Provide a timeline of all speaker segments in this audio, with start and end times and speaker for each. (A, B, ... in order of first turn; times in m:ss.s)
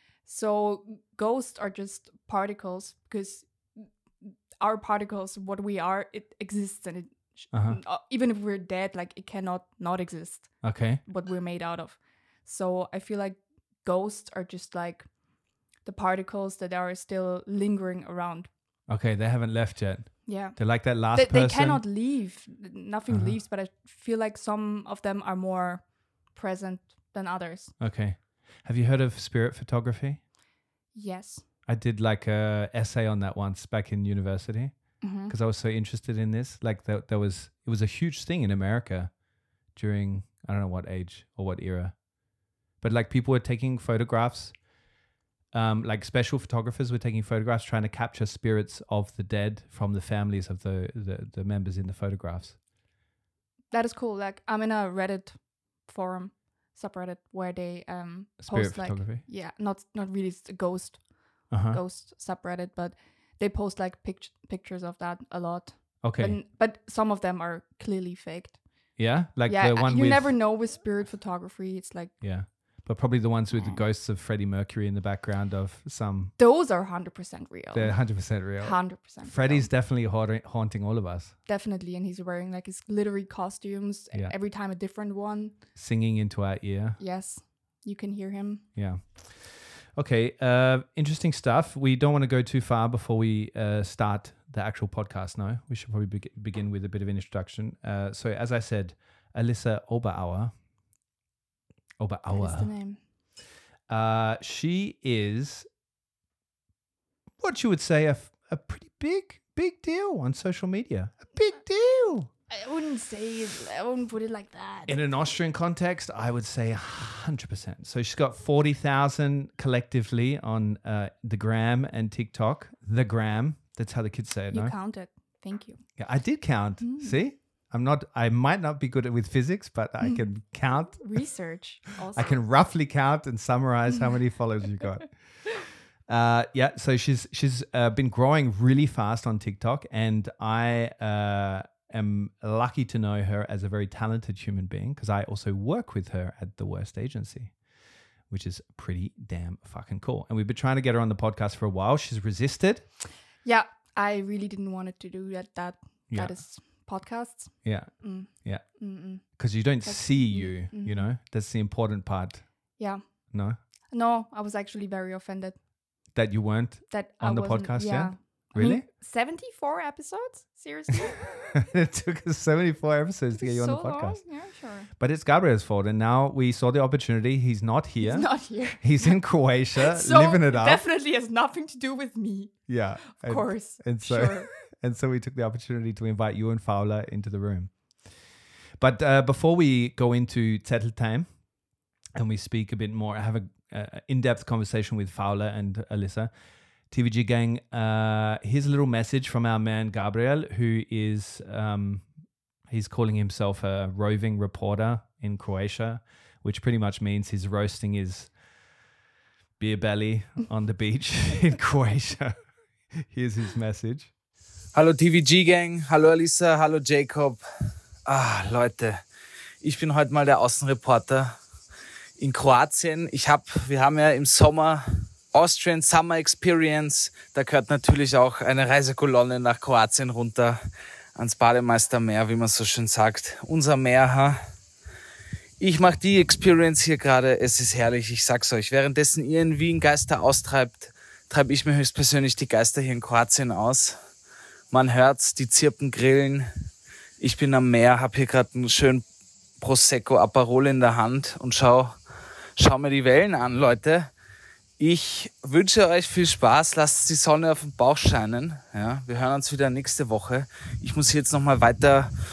0:00.2-0:15.1 A
0:07.5-0:07.8 B
0:10.6-0:11.0 B
0:15.8-0:18.5 A
0:18.9-0:21.8 B
0:20.2-0:20.6 A
0:21.1-0:27.7 A
0:23.1-0:23.3 B
0:27.8-0:30.2 B
0:30.9-0:31.4 A
0:31.6-0:39.1 B
0:35.0-0:35.3 A
0:39.7-0:41.9 B
0:42.8-0:44.6 B
0:45.5-0:52.6 B
0:53.7-1:08.6 A
0:58.4-0:59.2 B
1:01.5-1:01.8 B
1:06.0-1:06.4 B
1:09.0-1:10.4 B
1:09.4-1:12.1 A
1:12.2-1:16.3 B
1:13.5-1:13.8 A
1:16.4-1:19.7 A
1:17.7-1:21.3 B
1:21.5-1:25.6 A
1:25.7-1:27.0 B
1:27.0-1:28.6 A
1:28.7-1:40.5 B
1:42.0-1:42.7 B
1:42.3-1:43.0 A
1:43.9-1:45.7 B
1:47.4-1:52.3 B
1:52.5-1:55.0 A
1:54.9-2:04.7 B
2:04.5-2:05.8 A
2:06.0-2:11.2 B
2:06.8-2:07.2 A
2:10.0-2:10.3 A
2:11.0-2:12.4 A
2:12.1-2:15.1 B
2:16.1-2:27.5 B
2:28.3-2:32.8 B
2:33.4-2:39.2 A
2:36.1-2:36.4 B
2:37.6-2:38.6 B
2:39.4-2:42.4 B
2:39.8-2:41.1 A
2:43.9-2:45.6 A
2:46.1-2:48.8 B
2:46.9-2:51.2 A
2:51.5-2:54.2 B
2:53.4-2:54.9 A
2:55.0-3:00.8 B
2:58.0-2:59.2 A
2:59.8-3:04.5 A
3:02.7-3:07.7 B
3:08.8-3:11.3 B
3:12.1-3:16.3 B
3:16.9-3:22.0 B
3:22.7-3:28.3 B
3:29.6-3:32.4 B
3:32.9-3:34.1 B
3:34.7-3:37.4 C
3:38.1-3:39.0 C
3:39.6-3:41.3 C
3:42.2-3:50.6 C
3:51.2-3:54.4 C
3:55.6-4:04.0 C
4:04.7-4:06.5 C
4:07.2-4:09.0 C
4:09.6-4:11.9 C
4:12.6-4:14.1 C
4:14.8-4:22.1 C